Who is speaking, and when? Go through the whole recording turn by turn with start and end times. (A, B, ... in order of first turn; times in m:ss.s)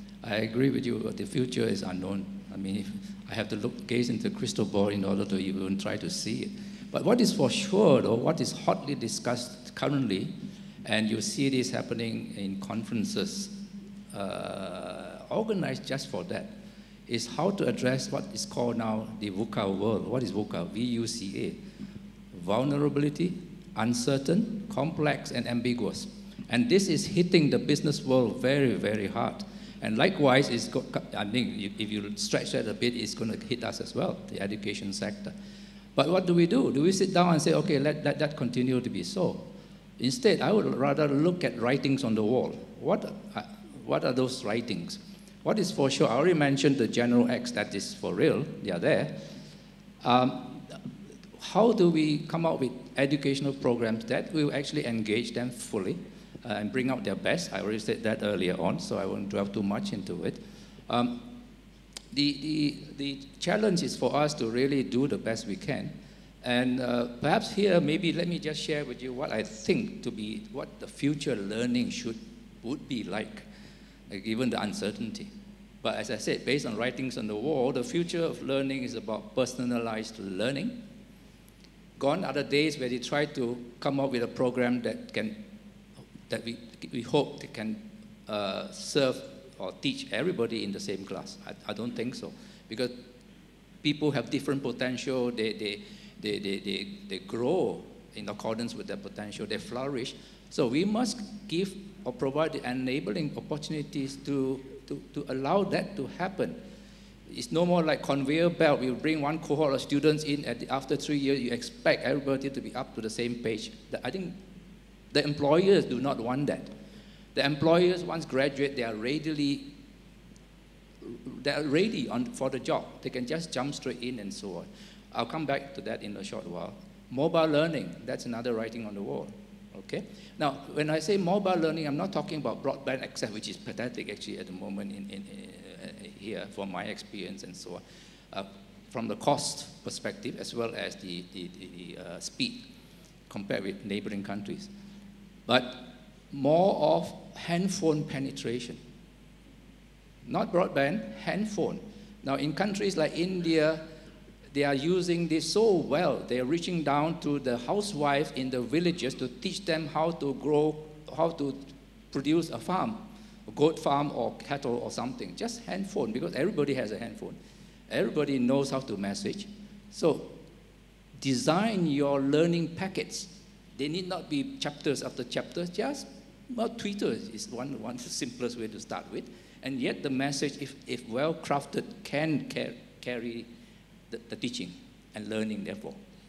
0:00.2-0:10.3 A
0:10.8-0:13.6 A
0:14.1-0:16.6 A
0:17.1-0:21.6 A
0:22.3-0:35.4 A
0:36.0-0:49.3 A
0:50.0-0:50.8 A
0:51.4-1:01.3 A
1:02.1-1:13.5 A
1:14.1-1:15.3 A
1:15.8-1:20.9 A
1:22.0-1:25.5 A
1:26.3-1:33.0 A
1:33.8-1:46.6 A
1:47.3-1:54.4 A
1:55.1-1:56.7 A
1:57.3-1:59.8 A
2:01.0-2:22.7 A
2:23.3-2:24.7 A
2:25.5-2:28.8 A
2:30.2-2:33.9 A
2:34.5-2:47.4 A
2:47.9-2:50.4 A
2:51.2-3:03.5 A
3:04.1-3:06.0 A